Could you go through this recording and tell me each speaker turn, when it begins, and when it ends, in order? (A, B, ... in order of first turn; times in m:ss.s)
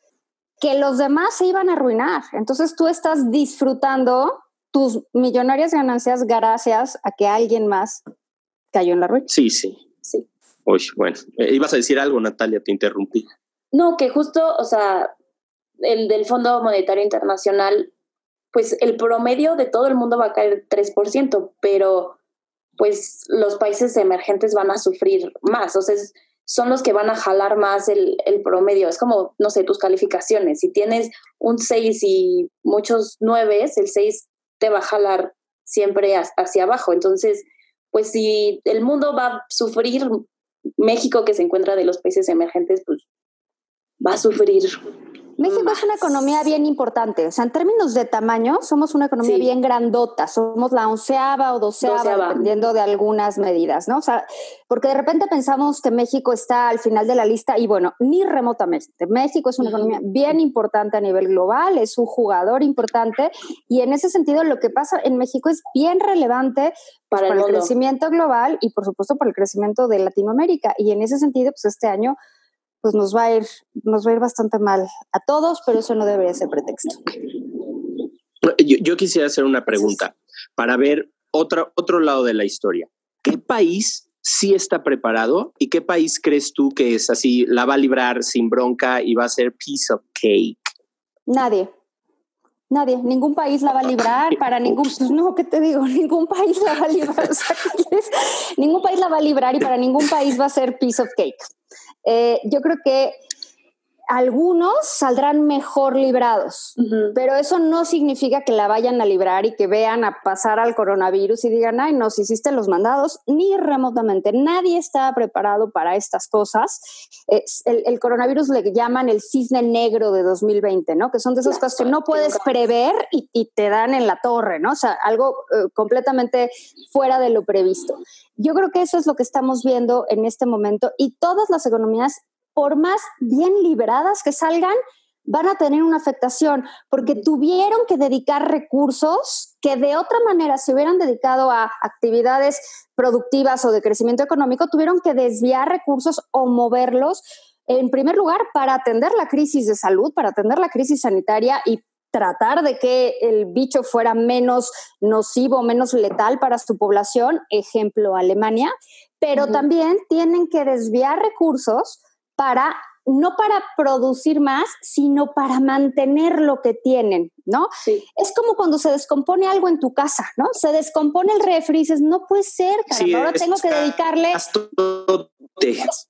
0:00.6-0:08.0 A
0:08.7-0:09.3 A
0:09.3-0:09.8 B
0:10.7-0:13.3 B
0:13.7-0:15.1 C
0:15.8-0:17.9 C
0:18.5-0:22.2 C
0:22.8-0:40.2 C
0:40.8-0:43.0 C
0:44.0-0:44.8 C
0:45.4-1:12.2 A
0:45.4-0:46.0 C
0:49.2-0:49.5 C
0:51.8-0:52.6 C
0:59.6-1:00.0 C
1:07.1-1:07.7 C
1:12.8-1:17.1 A
1:18.4-1:30.7 B
1:31.3-1:31.7 A
1:32.7-1:41.4 A
1:42.0-1:43.2 A
1:44.1-2:54.4 A
1:46.8-1:47.2 C
2:01.5-2:02.5 C
2:39.4-2:39.6 C
2:52.9-2:55.9 B